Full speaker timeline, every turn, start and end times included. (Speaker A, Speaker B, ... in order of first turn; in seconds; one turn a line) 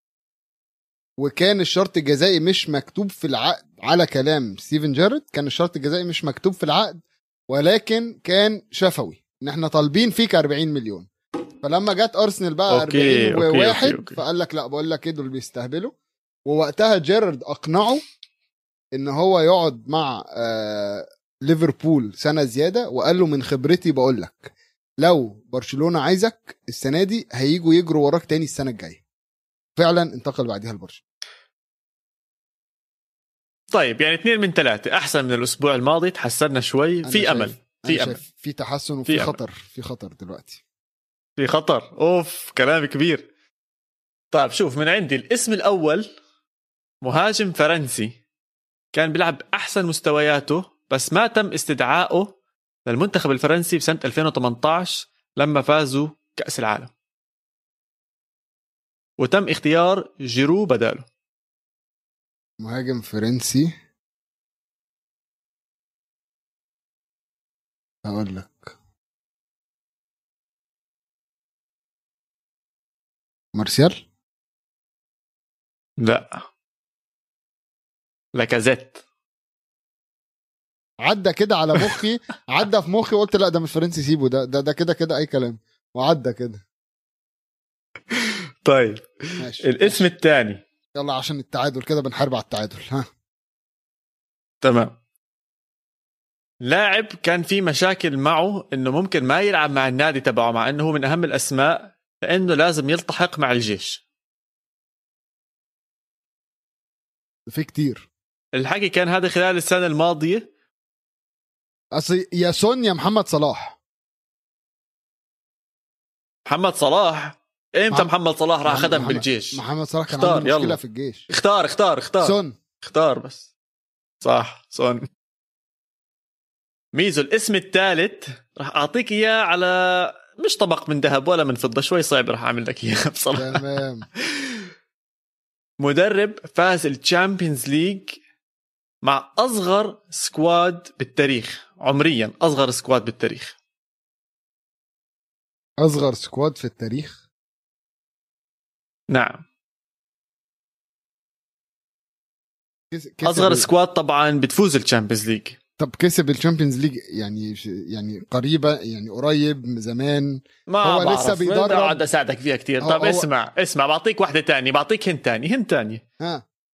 Speaker A: 1.2-11.1
Speaker A: 11.6-15.9
Speaker B: 12.7-14.2
Speaker A: 16.4-18.0
Speaker A: 18.9-29.0
Speaker A: 29.8-31.0
Speaker B: 33.7-38.2
Speaker A: 37.0-40.6
Speaker B: 39.0-39.4
Speaker B: 41.4-43.3
Speaker B: 44.3-46.1
Speaker B: 47.0-48.1
Speaker B: 48.9-52.3
Speaker B: 52.9-56.9
Speaker B: 59.2-61.1
Speaker A: 62.6-63.7
Speaker A: 68.0-68.7
Speaker A: 73.5-74.0
Speaker B: 76.0-76.4
Speaker B: 78.3-79.0
Speaker A: 81.0-86.6
Speaker B: 88.1-90.6
Speaker A: 89.4-90.0
Speaker A: 90.9-93.0
Speaker B: 94.6-94.9
Speaker B: 96.6-104.0
Speaker A: 107.5-108.1
Speaker B: 108.5-110.5
Speaker A: 111.9-113.8
Speaker B: 116.5-120.8
Speaker A: 118.6-121.3
Speaker B: 121.3-123.5
Speaker A: 122.2-122.5
Speaker B: 124.2-125.0
Speaker B: 126.9-133.6
Speaker A: 133.3-134.1
Speaker B: 134.2-134.7
Speaker B: 135.8-138.2
Speaker B: 139.0-143.5
Speaker A: 145.8-147.2
Speaker B: 149.1-149.4
Speaker A: 152.9-153.7
Speaker B: 153.2-155.6
Speaker A: 155.8-162.0
Speaker B: 160.7-166.0
Speaker A: 162.8-163.2